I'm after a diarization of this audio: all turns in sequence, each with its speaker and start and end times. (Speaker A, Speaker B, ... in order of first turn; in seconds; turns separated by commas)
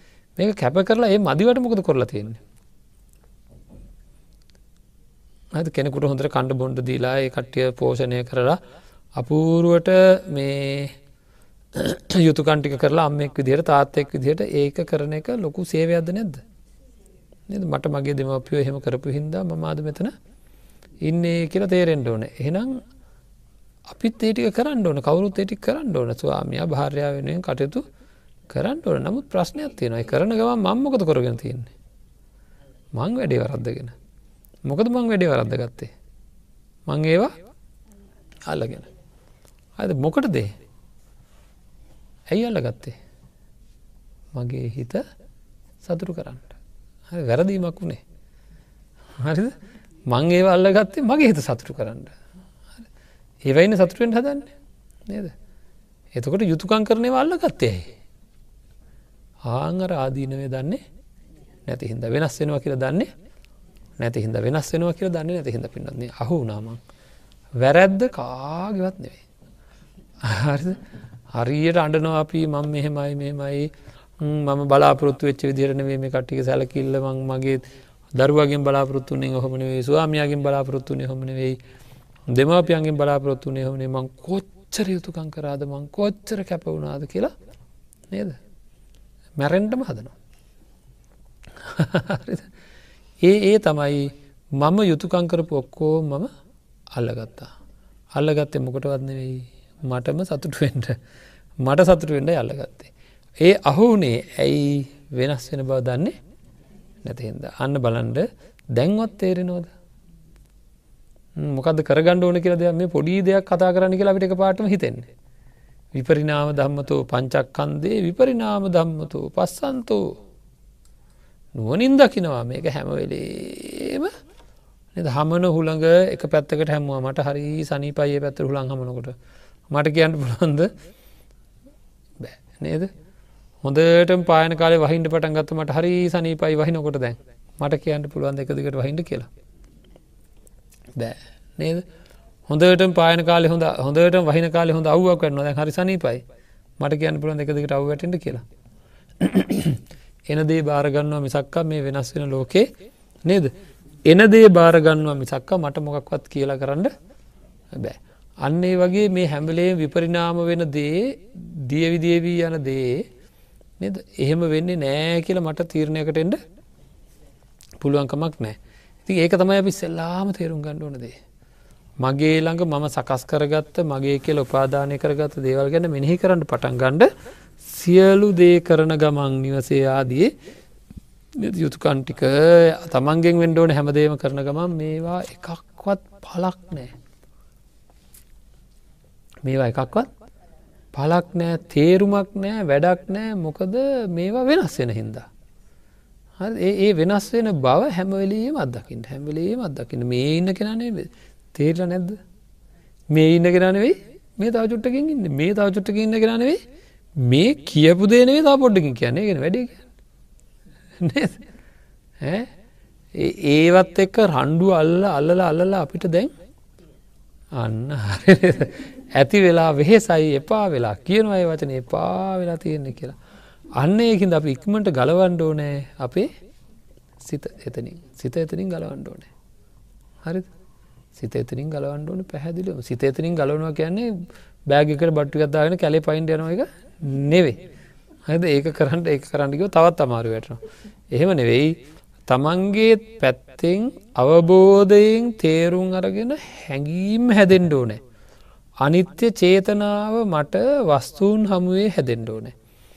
Speaker A: 0.4-2.4, Speaker A: 5.5-8.6, Speaker A: 9.1-10.9, Speaker A: 11.7-16.4, Speaker A: 17.5-20.1, Speaker A: 21.0-22.8, Speaker A: 23.9-27.8, Speaker A: 28.5-31.7, Speaker A: 32.9-33.9, Speaker A: 34.6-35.9, Speaker A: 36.9-37.3, Speaker A: 38.5-38.9, Speaker A: 39.8-40.5, Speaker A: 42.3-43.0, Speaker A: 44.3-45.0, Speaker A: 45.8-46.5, Speaker A: 47.1-48.0, Speaker A: 49.2-49.5, Speaker A: 50.1-52.1, Speaker A: 53.4-54.5, Speaker A: 55.1-55.3, Speaker A: 56.1-57.9, Speaker A: 59.4-60.8, Speaker A: 61.6-63.1, Speaker A: 64.0-66.8, Speaker A: 67.6-69.2, Speaker A: 70.2-77.6, Speaker A: 78.1-81.6, Speaker A: 82.3-87.3, Speaker A: 88.1-88.4, Speaker A: 89.4-90.1, Speaker A: 91.6-92.5, Speaker A: 93.2-96.3, Speaker A: 96.9-97.5, Speaker A: 98.1-101.0, Speaker A: 101.6-106.2, Speaker A: 107.0-109.7, Speaker A: 111.4-115.1, Speaker A: 115.9-120.1, Speaker A: 121.5-124.1, Speaker A: 124.9-129.2, Speaker A: 129.7-130.7, Speaker A: 132.2-132.9, Speaker A: 133.6-139.3, Speaker A: 140.9-141.8, Speaker A: 142.5-146.2, Speaker A: 146.8-148.4, Speaker A: 149.2-152.7, Speaker A: 153.2-153.5, Speaker A: 154.1-156.9, Speaker A: 157.7-163.1, Speaker A: 163.8-166.4, Speaker A: 167.8-171.2, Speaker A: 172.0-177.1, Speaker A: 177.6-180.3, Speaker A: 181.3-186.9, Speaker A: 189.4-190.1, Speaker A: 190.9-195.3, Speaker A: 196.4-202.2, Speaker A: 203.1-206.6, Speaker A: 207.2-209.8, Speaker A: 211.0-211.4, Speaker A: 212.2-212.5, Speaker A: 213.1-216.3, Speaker A: 217.5-223.2, Speaker A: 223.7-226.3, Speaker A: 227.2-229.3, Speaker A: 230.2-230.5, Speaker A: 231.1-237.6, Speaker A: 238.3-248.0, Speaker A: 248.8-252.5